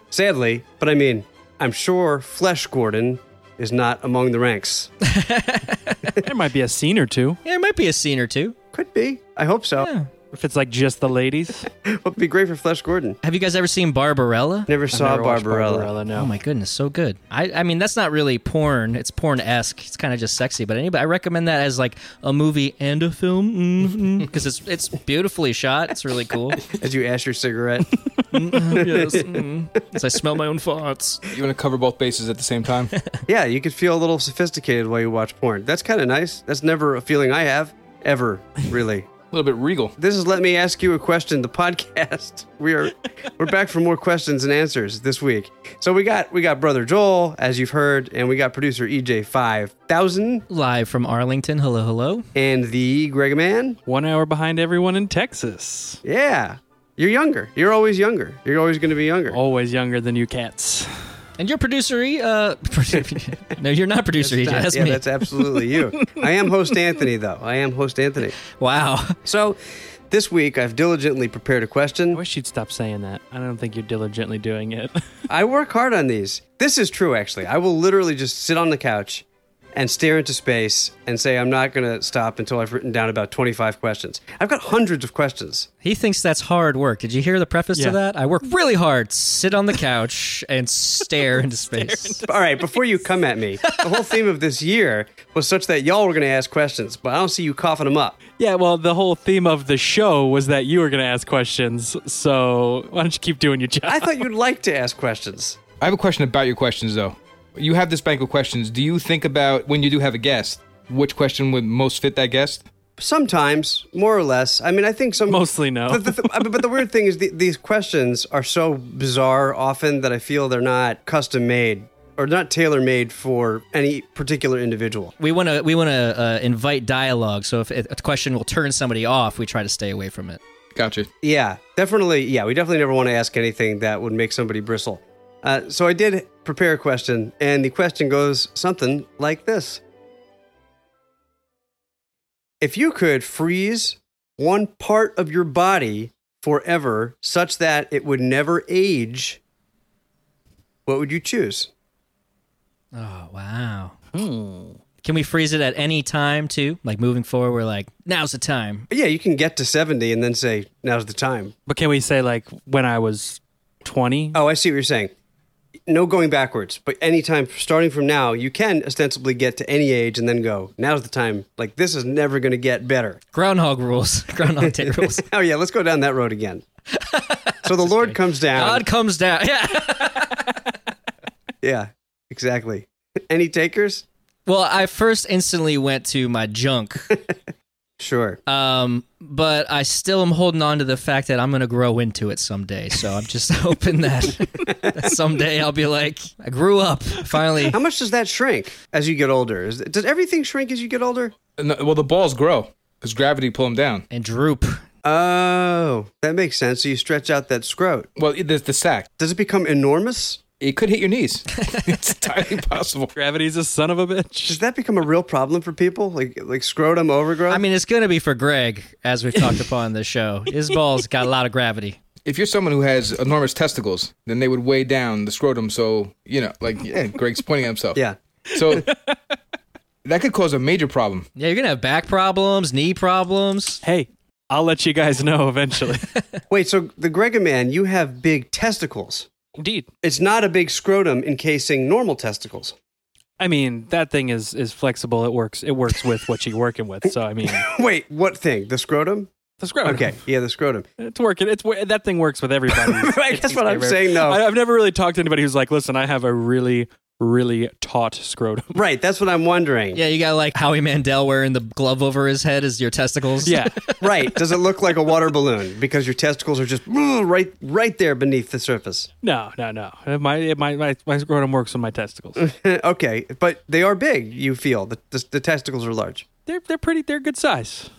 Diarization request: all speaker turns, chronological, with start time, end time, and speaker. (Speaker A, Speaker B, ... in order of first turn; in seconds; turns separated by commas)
Speaker A: 0.1-4.9, Speaker B: 5.0-6.2, Speaker C: 6.2-7.4, Speaker B: 7.4-8.6, Speaker A: 8.7-9.9, Speaker B: 9.8-10.1, Speaker C: 10.3-11.7, Speaker A: 11.8-13.2, Speaker B: 13.2-14.7, Speaker A: 14.7-15.9, Speaker C: 14.9-16.3, Speaker B: 16.1-26.6, Speaker A: 26.7-27.9, Speaker B: 28.3-31.2, Speaker A: 28.5-29.4, Speaker D: 31.3-32.9, Speaker B: 32.9-33.2, Speaker A: 33.3-39.1, Speaker D: 39.3-40.0, Speaker A: 40.0-50.5, Speaker B: 50.5-52.2, Speaker A: 52.3-53.8, Speaker C: 53.9-56.0, Speaker A: 56.0-59.4, Speaker C: 59.3-60.9, Speaker B: 61.4-65.0, Speaker A: 64.2-68.3, Speaker B: 68.6-69.2, Speaker A: 69.2-69.6, Speaker A: 70.1-72.2, Speaker C: 72.1-75.0, Speaker A: 75.3-85.7, Speaker B: 85.8-92.2, Speaker C: 91.7-92.3, Speaker A: 92.2-98.2, Speaker C: 98.4-104.2, Speaker A: 103.9-105.6, Speaker D: 105.8-112.6, Speaker A: 113.0-125.1, Speaker C: 115.3-116.5, Speaker B: 125.2-130.4, Speaker D: 130.7-131.1, Speaker A: 131.2-139.8, Speaker A: 142.6-149.4, Speaker A: 150.8-151.7, Speaker B: 152.9-153.9, Speaker C: 154.1-154.8, Speaker B: 155.0-158.9, Speaker A: 158.9-161.5, Speaker C: 161.7-164.4, Speaker A: 164.3-165.1, Speaker A: 165.9-173.2, Speaker B: 173.3-175.2, Speaker A: 174.6-176.6, Speaker B: 176.9-180.6, Speaker A: 177.6-178.8, Speaker A: 181.6-184.0, Speaker B: 184.4-187.2, Speaker A: 188.0-188.4, Speaker B: 188.5-197.8, Speaker A: 197.7-201.3, Speaker D: 201.6-204.1, Speaker B: 204.1-204.8, Speaker A: 205.0-208.1, Speaker D: 208.2-209.1, Speaker A: 209.2-210.4, Speaker D: 210.6-213.1, Speaker C: 213.1-214.6, Speaker A: 214.4-217.6, Speaker B: 217.5-222.0, Speaker D: 222.2-228.0, Speaker D: 228.5-228.9, Speaker D: 230.0-231.3, Speaker B: 231.3-233.8, Speaker C: 233.8-236.1, Speaker A: 236.5-239.3, Speaker C: 239.6-239.9, Speaker A: 240.0-242.8, Speaker C: 243.4-247.7, Speaker A: 247.4-249.3, Speaker C: 249.6-250.2, Speaker A: 249.8-250.8, Speaker C: 251.0-258.8, Speaker A: 252.7-254.4, Speaker A: 258.7-260.0, Speaker B: 259.9-264.0, Speaker C: 263.4-263.8, Speaker A: 264.0-269.1, Speaker C: 269.2-272.4, Speaker A: 272.4-276.2, Speaker C: 276.5-277.9